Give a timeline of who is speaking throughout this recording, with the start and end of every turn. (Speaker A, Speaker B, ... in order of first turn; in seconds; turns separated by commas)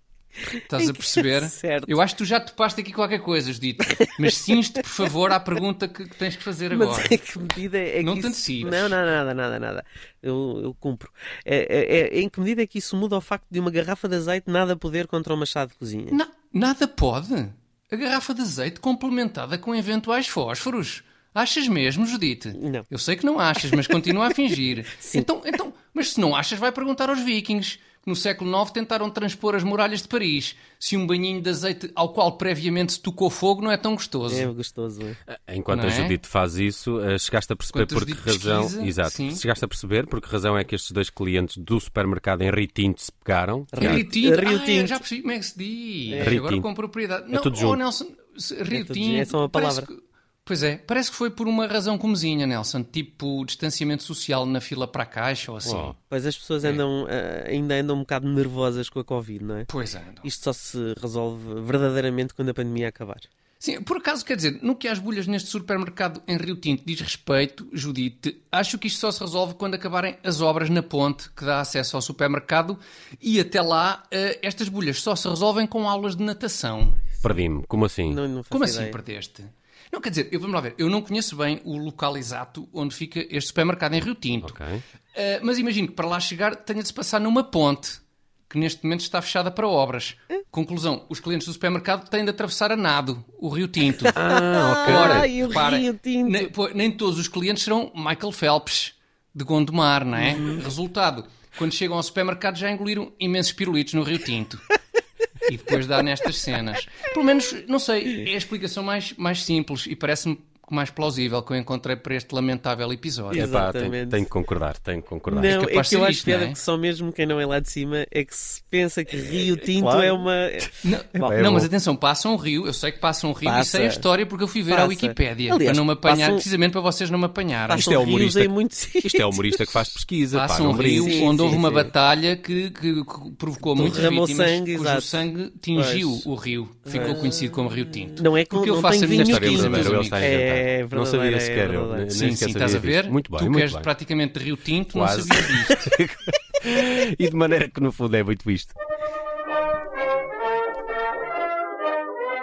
Speaker A: 0.6-7.2, Speaker B: 0.8-2.0, Speaker B: 6.7-16.2, Speaker A: 8.0-9.0, Speaker A: 16.1-34.5, Speaker B: 22.6-22.9, Speaker B: 25.0-25.3, Speaker B: 34.3-35.2, Speaker C: 35.3-44.0, Speaker A: 35.7-36.2, Speaker A: 37.7-39.4, Speaker B: 43.7-45.0, Speaker A: 43.8-56.0, Speaker B: 46.1-46.4, Speaker C: 46.2-46.7, Speaker C: 47.3-47.8, Speaker B: 48.7-49.9, Speaker C: 55.6-56.0, Speaker B: 56.1-59.7, Speaker A: 59.7-60.3, Speaker B: 60.2-63.3, Speaker A: 63.6-77.0, Speaker C: 77.2-78.2, Speaker B: 78.1-79.0, Speaker A: 78.5-84.6, Speaker C: 84.4-84.8, Speaker A: 85.1-104.7, Speaker B: 94.1-96.5, Speaker C: 94.2-95.4, Speaker B: 100.2-100.6, Speaker A: 105.5-113.5, Speaker C: 113.3-115.6, Speaker B: 113.3-114.2, Speaker B: 115.3-121.3, Speaker A: 115.4-116.6, Speaker C: 119.8-120.1, Speaker A: 120.8-127.9, Speaker C: 121.2-121.7, Speaker B: 123.4-124.1, Speaker B: 124.7-126.5, Speaker B: 127.7-129.5, Speaker C: 127.8-131.6, Speaker A: 130.3-140.3, Speaker B: 130.8-131.9, Speaker B: 133.6-136.2, Speaker B: 136.8-137.6, Speaker B: 138.2-142.2, Speaker C: 139.1-143.9, Speaker A: 142.1-145.9, Speaker C: 144.9-148.8